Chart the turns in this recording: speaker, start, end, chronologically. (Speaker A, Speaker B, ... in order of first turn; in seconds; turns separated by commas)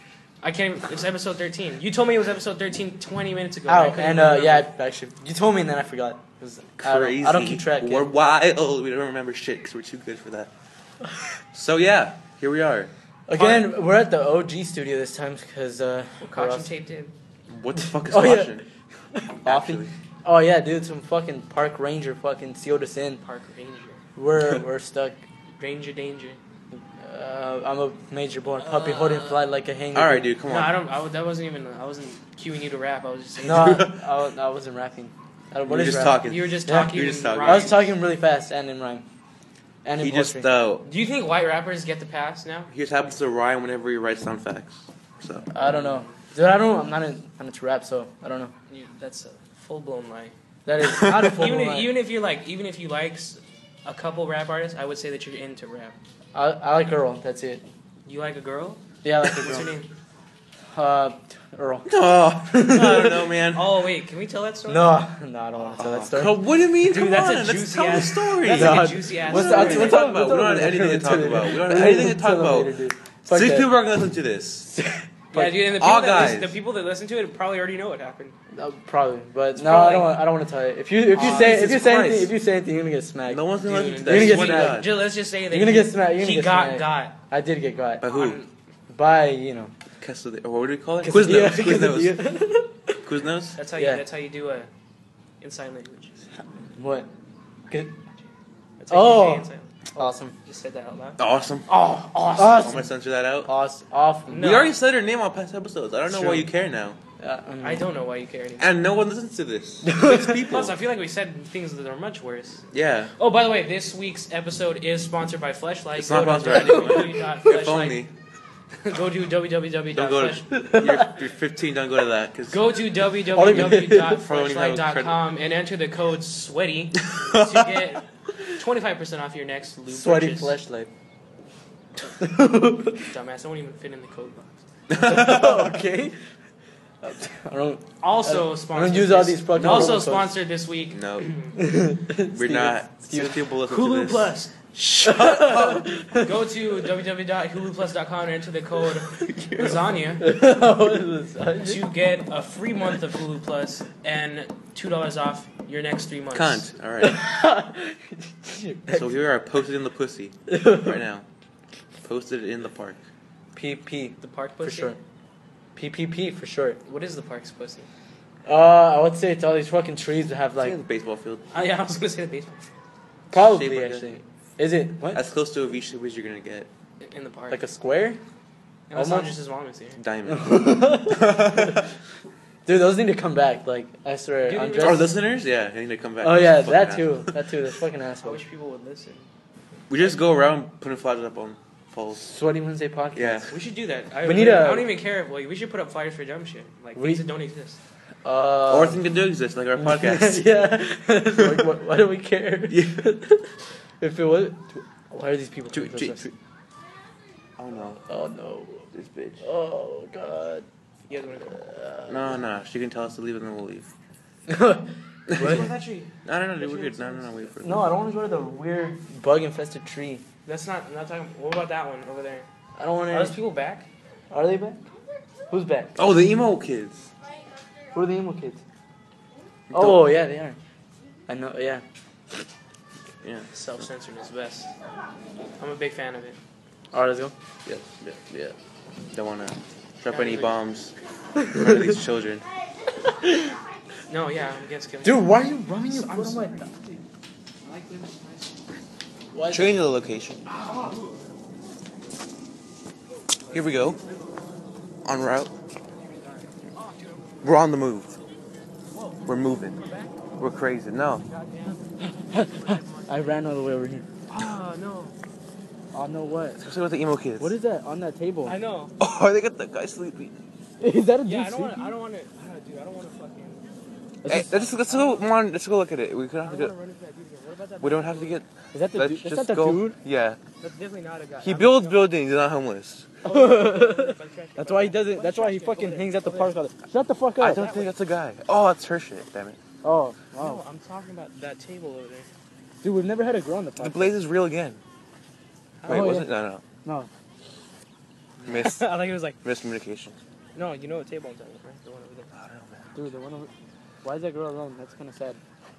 Speaker A: 0.4-4.7, Speaker B: 3.7-8.1, Speaker C: 6.8-10.5, Speaker C: 11.5-12.9, Speaker B: 13.3-16.7, Speaker A: 13.3-13.7, Speaker A: 16.2-17.1, Speaker C: 17.5-18.6, Speaker B: 18.0-18.6, Speaker B: 19.1-23.2, Speaker C: 19.4-19.9, Speaker A: 23.2-24.0, Speaker B: 24.1-25.2, Speaker A: 25.6-26.4, Speaker B: 27.0-30.3, Speaker A: 28.6-29.4, Speaker C: 29.9-30.8, Speaker A: 30.4-33.9, Speaker C: 33.4-34.0, Speaker B: 33.4-39.0, Speaker C: 35.6-37.8, Speaker A: 36.2-37.9, Speaker B: 39.8-40.5, Speaker C: 40.0-40.9, Speaker A: 40.8-42.7, Speaker C: 42.7-45.5, Speaker B: 45.5-48.5, Speaker A: 45.5-46.2, Speaker A: 48.7-50.3, Speaker B: 50.6-51.9, Speaker C: 50.9-51.1, Speaker A: 51.2-56.0, Speaker B: 56.3-57.6, Speaker A: 58.0-59.9, Speaker B: 59.0-59.7, Speaker B: 60.7-61.9, Speaker C: 61.9-63.8, Speaker B: 62.5-63.3, Speaker A: 63.5-64.9, Speaker B: 64.7-66.4, Speaker C: 65.8-72.7, Speaker A: 66.8-70.0, Speaker B: 68.4-73.7, Speaker C: 73.3-74.7, Speaker B: 74.6-75.6, Speaker A: 75.3-78.3, Speaker C: 75.6-76.5, Speaker B: 78.5-84.9, Speaker A: 79.5-80.2, Speaker C: 81.1-82.3, Speaker A: 81.1-81.7, Speaker C: 83.3-85.0, Speaker A: 83.6-87.2, Speaker B: 85.5-88.0, Speaker C: 88.0-88.4, Speaker A: 88.0-88.5, Speaker B: 88.9-89.7, Speaker C: 90.0-92.2, Speaker B: 91.0-93.0, Speaker C: 93.0-93.5, Speaker A: 93.5-94.7, Speaker B: 93.8-94.0, Speaker A: 95.4-96.2, Speaker B: 96.8-97.1, Speaker B: 97.7-98.0, Speaker A: 98.8-102.6, Speaker B: 98.9-100.3, Speaker C: 101.2-101.7, Speaker B: 102.3-102.9, Speaker C: 102.5-103.5, Speaker B: 103.4-104.5, Speaker A: 104.3-104.7, Speaker C: 104.3-107.0, Speaker B: 106.1-106.5, Speaker B: 107.2-107.9, Speaker A: 107.6-108.7, Speaker C: 108.6-110.8, Speaker B: 109.8-110.5, Speaker A: 110.5-112.6, Speaker C: 112.7-113.1, Speaker A: 113.2-118.0, Speaker C: 116.0-118.1, Speaker B: 116.7-117.0, Speaker A: 118.8-120.4, Speaker C: 119.9-122.7, Speaker B: 120.5-121.1, Speaker A: 122.5-130.5, Speaker B: 123.3-124.2, Speaker C: 123.5-125.3, Speaker C: 127.0-127.8, Speaker B: 129.9-130.9, Speaker B: 132.1-133.1, Speaker A: 133.0-134.6, Speaker C: 134.9-135.7, Speaker B: 135.0-136.2, Speaker B: 137.0-140.3, Speaker A: 138.0-141.5, Speaker C: 139.5-140.1, Speaker C: 140.9-141.3, Speaker B: 141.5-143.4, Speaker C: 142.3-144.3, Speaker A: 143.7-150.3, Speaker B: 145.0-146.5, Speaker C: 145.2-145.9, Speaker C: 149.0-149.9, Speaker B: 150.2-151.8, Speaker A: 151.6-156.7, Speaker C: 156.3-157.2, Speaker B: 157.0-159.2, Speaker C: 158.9-161.2, Speaker B: 160.5-161.0, Speaker C: 162.0-163.0, Speaker B: 163.5-165.0, Speaker A: 164.2-164.9, Speaker B: 165.7-166.8, Speaker A: 166.8-167.9, Speaker B: 168.4-170.8, Speaker C: 170.6-171.6, Speaker A: 171.5-172.7, Speaker C: 173.3-174.2, Speaker B: 173.3-175.2, Speaker C: 175.1-176.7, Speaker A: 177.0-177.6, Speaker B: 177.5-178.2, Speaker A: 178.9-180.0, Speaker B: 178.9-179.3, Speaker C: 180.0-181.9, Speaker B: 180.3-181.9, Speaker B: 182.7-185.1, Speaker A: 184.5-185.1, Speaker C: 184.8-187.3, Speaker B: 186.2-188.4, Speaker A: 188.2-189.3, Speaker C: 189.9-192.3, Speaker B: 192.2-193.6, Speaker C: 193.1-193.5, Speaker A: 193.5-197.8, Speaker B: 194.2-194.9, Speaker B: 196.9-197.2, Speaker B: 198.2-199.0, Speaker C: 198.7-200.5, Speaker B: 199.8-206.2, Speaker C: 201.3-201.7, Speaker C: 202.7-203.0, Speaker C: 205.7-206.3, Speaker C: 207.6-208.0, Speaker B: 208.1-208.8, Speaker C: 208.9-209.4, Speaker B: 209.4-210.6, Speaker A: 211.1-211.7, Speaker B: 211.4-212.3, Speaker C: 212.1-213.9, Speaker B: 214.5-215.7, Speaker C: 215.3-215.7, Speaker A: 215.3-217.5, Speaker C: 216.2-217.9, Speaker B: 217.6-220.2, Speaker A: 220.4-222.5, Speaker B: 222.8-223.3, Speaker A: 223.1-223.9, Speaker B: 224.3-224.8, Speaker B: 225.5-226.0, Speaker C: 226.0-227.1, Speaker B: 227.9-228.6, Speaker C: 229.7-230.0, Speaker B: 229.7-230.6, Speaker B: 231.3-231.8, Speaker C: 233.2-233.8, Speaker A: 233.5-234.7, Speaker A: 235.6-236.4, Speaker B: 236.9-237.3, Speaker C: 237.7-238.5, Speaker C: 239.1-242.4, Speaker A: 240.0-240.6, Speaker B: 241.4-241.9, Speaker A: 244.1-245.2, Speaker B: 245.0-247.0, Speaker A: 245.9-246.7, Speaker A: 247.7-248.4, Speaker B: 249.3-249.7, Speaker C: 249.5-250.4, Speaker A: 250.5-251.1, Speaker C: 253.5-254.0, Speaker C: 255.0-255.5, Speaker C: 257.4-258.1, Speaker A: 258.9-259.2, Speaker C: 259.2-259.8, Speaker A: 259.8-260.1, Speaker C: 260.4-261.2, Speaker A: 261.3-261.8, Speaker B: 262.0-264.1, Speaker A: 262.6-263.1, Speaker A: 264.3-265.1, Speaker B: 265.9-266.6, Speaker C: 266.6-267.5, Speaker B: 267.4-268.6, Speaker A: 268.4-268.9, Speaker C: 269.0-270.3, Speaker B: 270.8-272.0, Speaker A: 271.2-273.6, Speaker B: 274.2-274.5, Speaker C: 274.3-276.7, Speaker A: 274.5-275.3, Speaker A: 276.4-278.4, Speaker C: 277.8-280.4, Speaker B: 278.7-280.0, Speaker A: 280.6-282.1, Speaker C: 281.4-283.1, Speaker A: 283.2-286.5, Speaker B: 283.2-287.7, Speaker C: 287.4-289.6, Speaker A: 287.4-287.9, Speaker B: 289.8-290.6, Speaker A: 290.4-292.3, Speaker B: 292.8-294.1, Speaker C: 293.8-294.8, Speaker A: 295.8-296.2, Speaker C: 295.9-296.6, Speaker B: 295.9-296.3, Speaker B: 296.8-297.1, Speaker C: 298.4-300.2, Speaker A: 298.5-299.4, Speaker A: 300.5-302.3, Speaker C: 302.3-302.9, Speaker B: 302.9-303.5, Speaker B: 304.0-305.4